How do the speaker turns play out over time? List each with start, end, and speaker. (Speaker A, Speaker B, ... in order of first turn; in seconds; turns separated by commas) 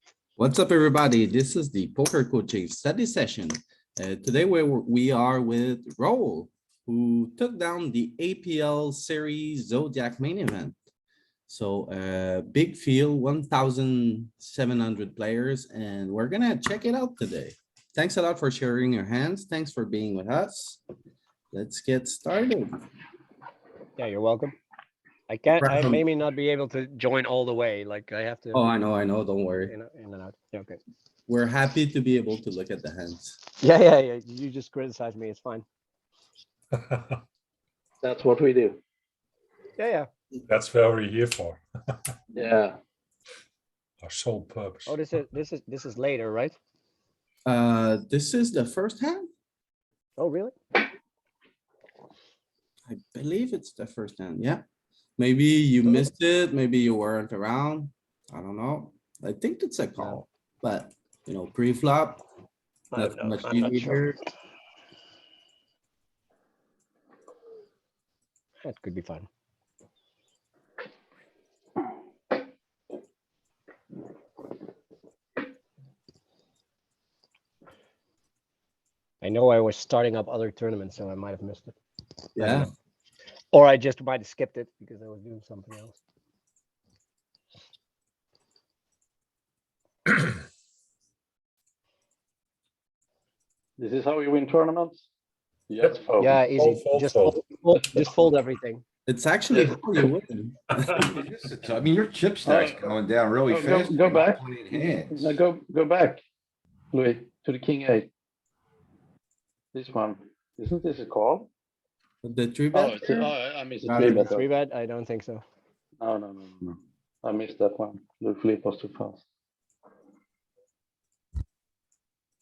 Speaker A: 0.4-10.8, Speaker A: 11.5-20.8, Speaker A: 21.5-22.8, Speaker B: 24.0-24.6, Speaker B: 25.3-28.7, Speaker A: 25.6-26.0, Speaker A: 28.5-29.7, Speaker B: 29.6-30.8, Speaker A: 31.3-33.4, Speaker B: 33.6-35.6, Speaker C: 36.7-37.2, Speaker D: 38.0-38.8, Speaker B: 39.8-40.1, Speaker C: 40.5-41.6, Speaker D: 42.3-42.8, Speaker C: 44.0-45.3, Speaker B: 44.9-46.5, Speaker A: 47.5-49.3, Speaker B: 50.2-50.5, Speaker A: 52.9-54.6, Speaker A: 55.2-62.2, Speaker B: 62.9-64.0, Speaker A: 62.9-64.2, Speaker B: 68.7-69.3, Speaker B: 79.2-81.8, Speaker A: 82.4-82.7, Speaker B: 83.5-86.0, Speaker D: 93.8-95.1, Speaker D: 95.7-96.5, Speaker B: 96.2-98.8, Speaker C: 96.6-97.4, Speaker A: 99.1-101.1, Speaker E: 101.0-105.3, Speaker D: 102.5-102.9, Speaker D: 103.5-106.2, Speaker D: 106.9-108.1, Speaker D: 109.7-111.5, Speaker A: 112.2-114.3, Speaker D: 112.7-114.5, Speaker B: 113.9-115.4, Speaker D: 116.0-119.2